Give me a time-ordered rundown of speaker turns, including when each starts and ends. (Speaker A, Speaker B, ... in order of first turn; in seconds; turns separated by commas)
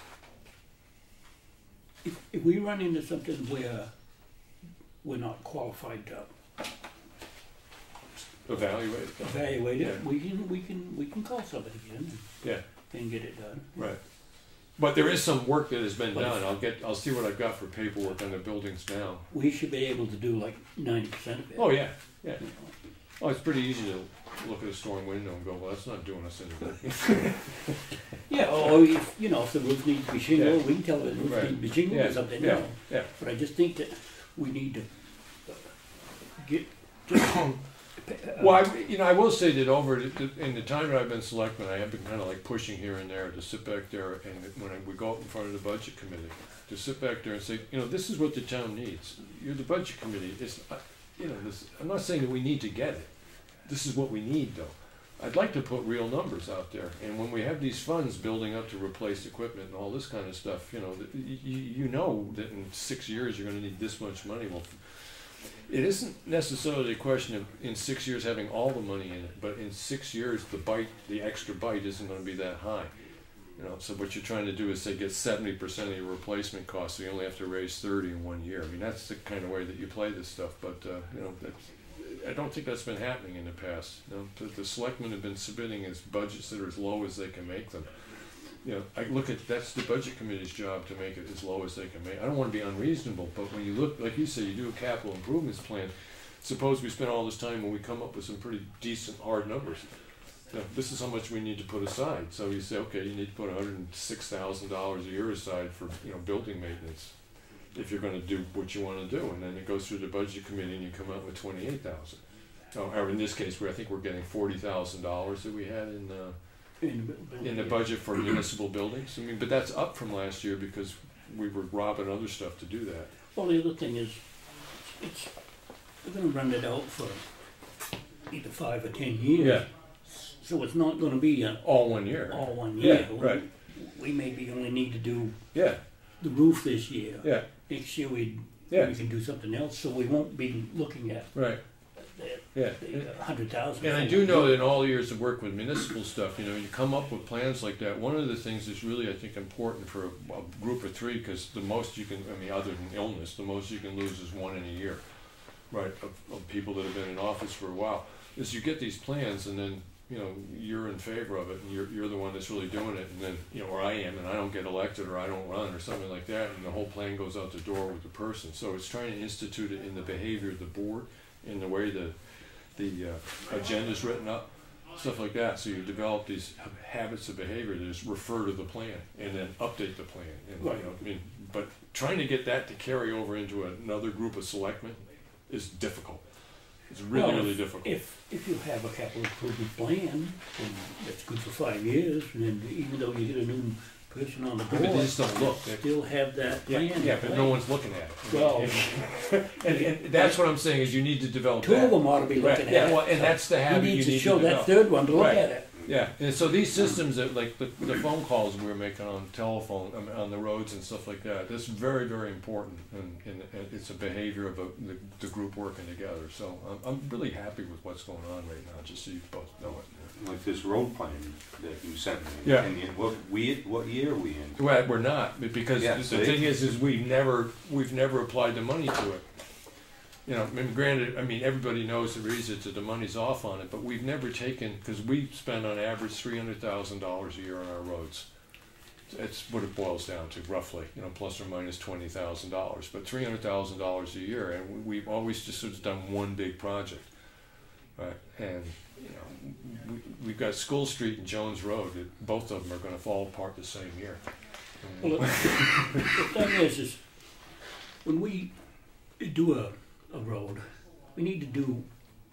Speaker A: 2.0-3.9, Speaker A: 5.0-6.3, Speaker B: 8.4-10.0, Speaker A: 9.2-13.8, Speaker B: 13.8-14.0, Speaker B: 14.6-19.3, Speaker A: 16.1-16.6, Speaker A: 19.3-21.9, Speaker B: 21.6-22.4, Speaker A: 22.4-22.8, Speaker B: 23.2-27.8, Speaker A: 28.3-35.8, Speaker B: 30.3-30.6, Speaker B: 31.1-33.1, Speaker A: 36.3-38.6, Speaker B: 37.1-37.6, Speaker B: 38.4-72.9, Speaker B: 73.5-87.9, Speaker B: 88.5-99.9, Speaker B: 100.5-107.1, Speaker B: 107.7-112.2, Speaker B: 112.7-116.4, Speaker A: 116.8-117.9, Speaker B: 117.4-123.1, Speaker A: 123.3-125.3, Speaker A: 126.0-127.4, Speaker A: 128.3-135.5, Speaker B: 129.4-129.7, Speaker B: 131.6-133.4, Speaker B: 135.5-135.8, Speaker A: 136.2-141.4, Speaker B: 137.2-137.5, Speaker B: 141.3-141.6, Speaker A: 141.9-144.6, Speaker B: 142.5-143.2, Speaker B: 143.8-155.0, Speaker B: 155.7-188.0, Speaker A: 180.6-180.9, Speaker A: 187.1-197.7, Speaker B: 194.7-196.0, Speaker B: 196.7-220.1, Speaker A: 198.3-200.5, Speaker A: 201.6-205.9, Speaker C: 205.7-206.1, Speaker A: 206.8-207.0, Speaker C: 219.6-224.6, Speaker B: 222.4-222.7, Speaker B: 224.6-229.4, Speaker C: 225.8-226.6, Speaker B: 230.3-238.3, Speaker B: 239.1-247.1, Speaker B: 247.9-256.2, Speaker A: 255.0-261.9